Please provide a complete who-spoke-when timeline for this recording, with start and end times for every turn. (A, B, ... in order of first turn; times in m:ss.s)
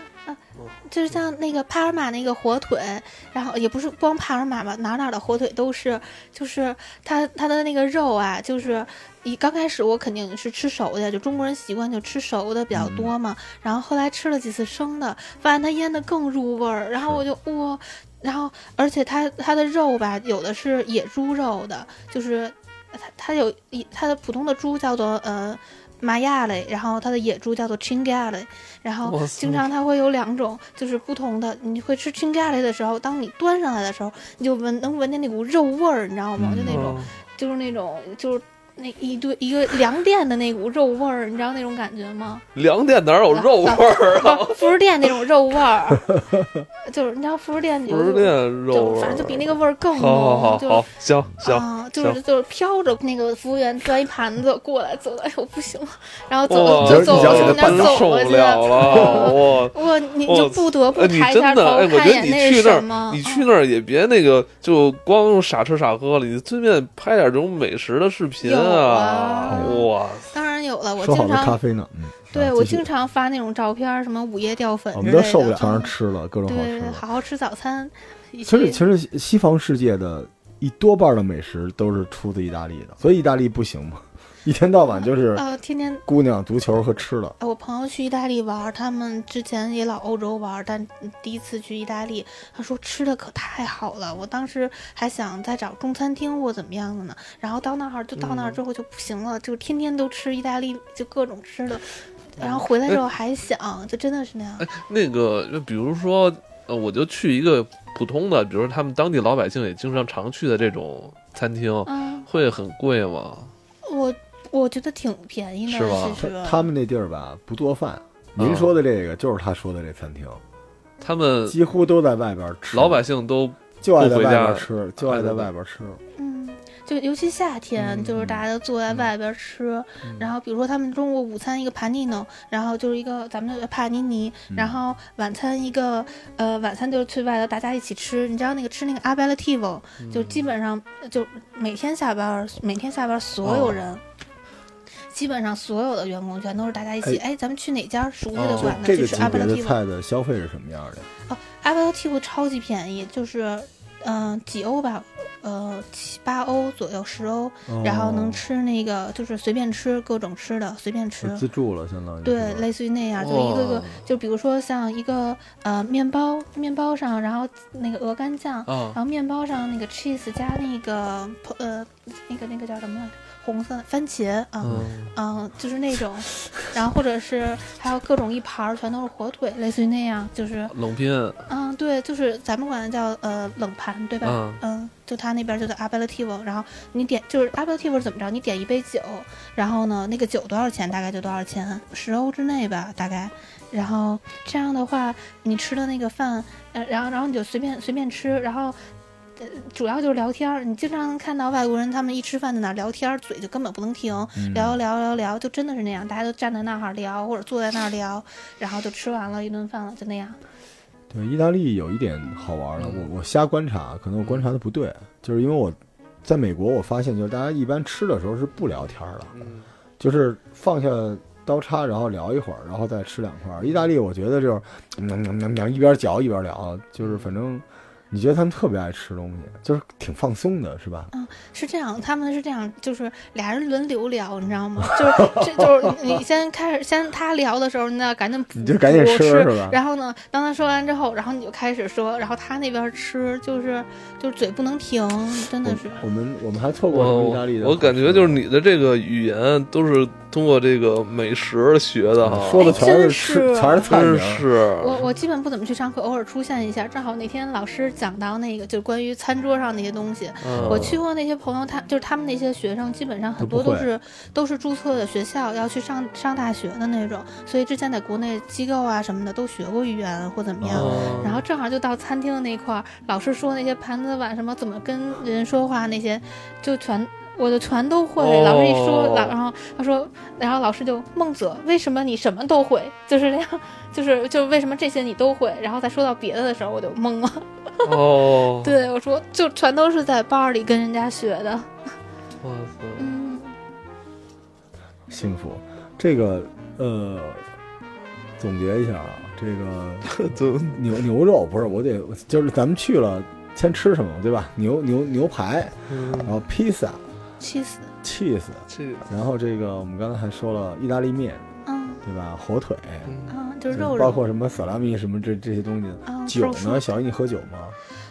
0:00.2-0:42.4 A
0:12.7-0:13.1 B
0:29.0-0:29.7 C
0:36.4-0:36.9 B
0:36.7-0:37.1 C
0:42.5-0:44.8 C
0:43.3-0:46.1 A
0:46.1-0:46.6 B
0:46.8-0:50.9 A
0:47.9-0:52.2 C
0:51.4-1:03.5 A
0:56.5-1:10.3 C
0:56.7-0:58.1 B
0:58.8-0:59.3 B
1:08.4-1:11.6 A
1:09.5-1:09.8 B
1:11.0-1:12.9 B
1:12.3-1:15.9 A
1:14.9-1:17.0 B
1:16.4-1:18.8 A
1:18.4-1:25.4 B
1:24.9-1:26.0 A
1:26.0-1:27.4 B
1:27.4-1:44.7 A
1:38.2-1:38.6 C
1:42.4-1:43.0 C
1:44.6-1:53.5 C
1:51.8-1:52.3 A
1:53.8-1:56.7 A
1:55.7-1:56.2 C
1:56.2-2:00.4 B
1:58.4-1:58.7 C
2:01.0-2:01.6 C
2:01.5-2:03.0 B
2:02.7-2:05.5 C
2:03.8-2:06.0 B
2:06.2-2:24.0 A
2:07.8-2:08.2 C
2:08.2-2:08.4 B
2:14.5-2:14.8 B
2:20.0-2:20.5 C
2:23.4-2:23.8 C
2:25.1-2:29.8 A
2:28.3-2:29.1 C
2:28.6-2:31.1 B
2:31.3-2:41.4 A
2:37.7-2:38.4 B
2:41.2-2:42.6 B
2:42.2-3:00.7 A
2:43.2-2:44.0 C
2:48.7-2:49.0 C
2:54.6-2:55.1 C
2:54.6-2:54.9 B
3:00.7-3:01.4 C
3:01.5-3:18.8 A
3:04.2-3:04.6 C
3:19.4-3:30.4 A
3:24.4-3:24.8 B
3:31.1-3:39.3 B
3:32.8-3:33.1 C
3:34.2-3:34.5 C
3:39.3-3:39.6 C
3:40.0-3:51.1 B
3:47.0-3:47.3 C
3:51.1-4:06.0 A
3:54.9-3:56.0 B
3:58.6-3:59.8 B
4:05.6-4:08.4 B
4:06.9-4:12.8 C
4:12.2-4:14.4 B
4:12.6-4:13.9 A
4:13.8-4:15.0 C
4:14.8-4:51.7 A
4:20.4-4:21.0 C
4:20.5-4:21.0 B
4:23.4-4:23.9 B
4:30.6-4:31.3 B
4:30.7-4:31.4 C
4:38.2-4:39.3 C
4:47.8-4:48.7 C
4:52.4-4:53.1 C
4:53.0-4:53.5 A
4:55.1-4:57.4 B
4:58.4-5:07.0 B
5:00.1-5:00.8 C
5:05.9-5:06.4 C
5:07.4-5:07.9 A
5:08.0-5:11.4 B
5:08.7-5:09.0 C
5:11.6-5:12.0 A
5:12.0-5:13.2 B
5:13.0-5:13.3 C
5:13.3-5:14.2 A
5:13.7-5:17.8 B
5:16.0-5:16.9 A